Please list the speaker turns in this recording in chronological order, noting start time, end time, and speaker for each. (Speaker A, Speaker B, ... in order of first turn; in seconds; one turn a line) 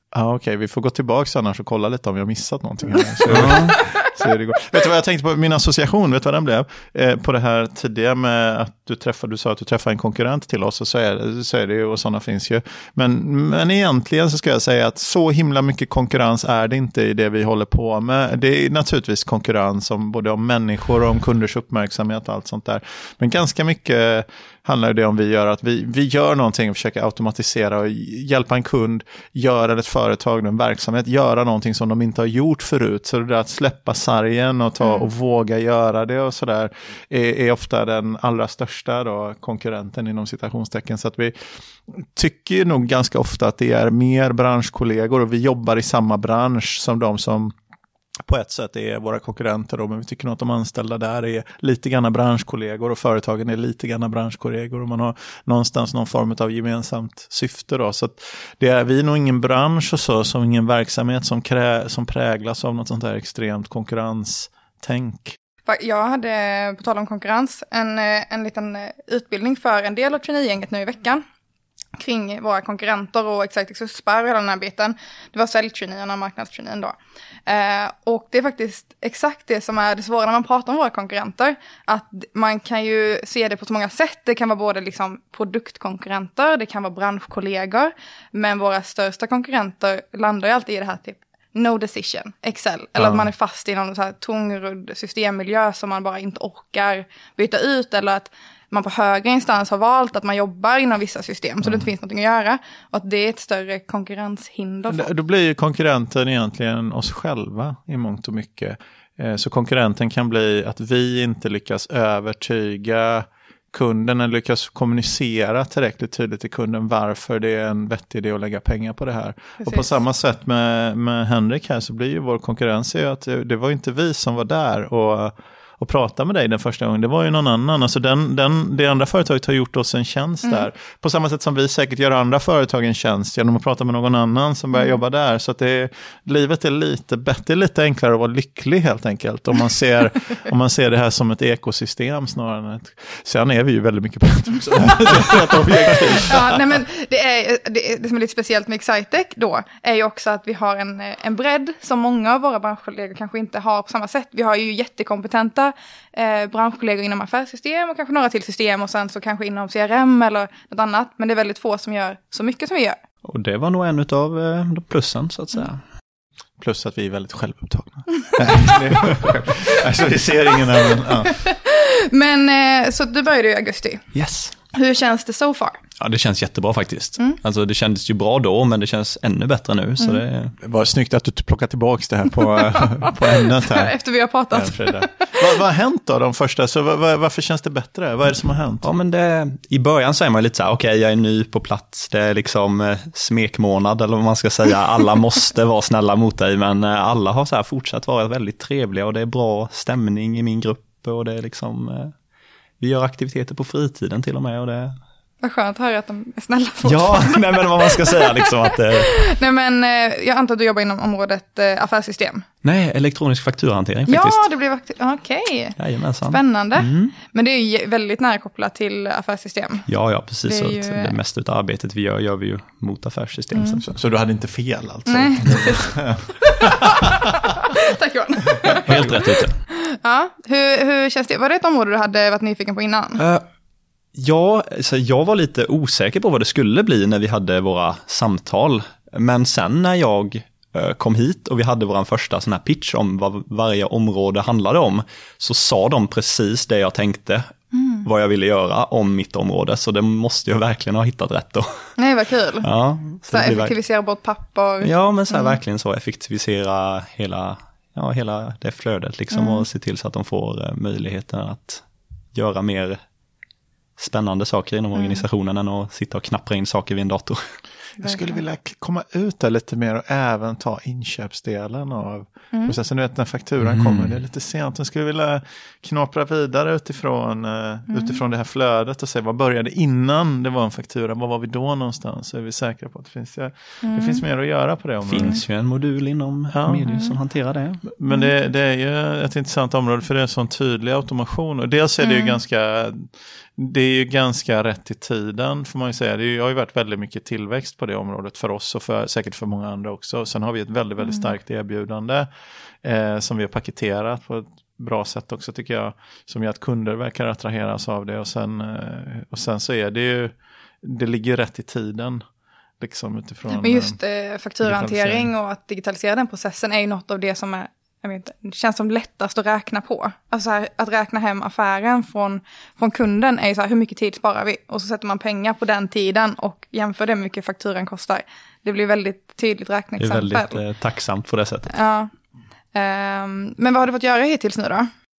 Speaker A: 0.1-47.5
Speaker B: 3.2-3.8
Speaker C: 3.3-4.0
Speaker C: 34.8-35.1
Speaker A: 48.2-65.4
Speaker C: 65.7-71.2
Speaker C: 72.0-77.0
Speaker C: 77.5-105.1
Speaker A: 104.9-146.6
Speaker C: 119.6-119.9
Speaker B: 144.6-146.2
Speaker C: 146.3-163.0
Speaker B: 163.2-165.8
Speaker A: 166.6-171.3
Speaker C: 171.2-174.1
Speaker B: 174.1-174.5
Speaker C: 174.7-175.8
Speaker B: 176.0-180.5
Speaker A: 180.6-183.9
Speaker C: 183.4-185.4
Speaker A: 184.5-188.8
Speaker B: 188.8-202.1
Speaker B: 202.8-204.9
Speaker C: 205.4-212.4
Speaker B: 206.8-209.2
Speaker B: 212.6-214.5
Speaker C: 214.1-215.8
Speaker B: 215.8-217.1
Speaker C: 216.3-219.9
Speaker B: 219.9-223.8
Speaker C: 220.4-221.2
Speaker C: 223.5-223.8
Speaker A: 223.8-227.2
Speaker C: 225.1-233.2
Speaker A: 228.6-229.2
Speaker B: 228.8-229.6
Speaker B: 233.2-233.4
Speaker B: 234.1-247.5
Speaker C: 247.7-248.0
Speaker B: 248.0-251.9
Speaker C: 252.0-252.7
Speaker B: 252.6-253.8
Speaker C: 253.3-255.6
Speaker B: 254.8-261.8
Speaker C: 259.3-259.7
Speaker B: 262.3-263.0
Speaker B: 264.0-267.6
Speaker C: 264.9-265.2
Speaker C: 268.0-268.4
Speaker A: 268.0-285.4
Speaker B: 273.6-274.1
Speaker C: 277.9-278.2
Speaker C: 283.8-284.2
Speaker B: 285.1-287.8
Speaker A: 286.5-286.8
Speaker C: 286.9-287.1
Speaker A: 287.9-302.3
Speaker C: 292.0-292.4
Speaker C: 301.0-301.3
Speaker A: 302.8-312.2
Speaker A: 312.8-314.0
Speaker C: 313.5-330.6
Speaker A: 314.6-315.3
Speaker B: 330.0-331.7
Speaker C: 331.7-332.1
Speaker C: 332.7-334.9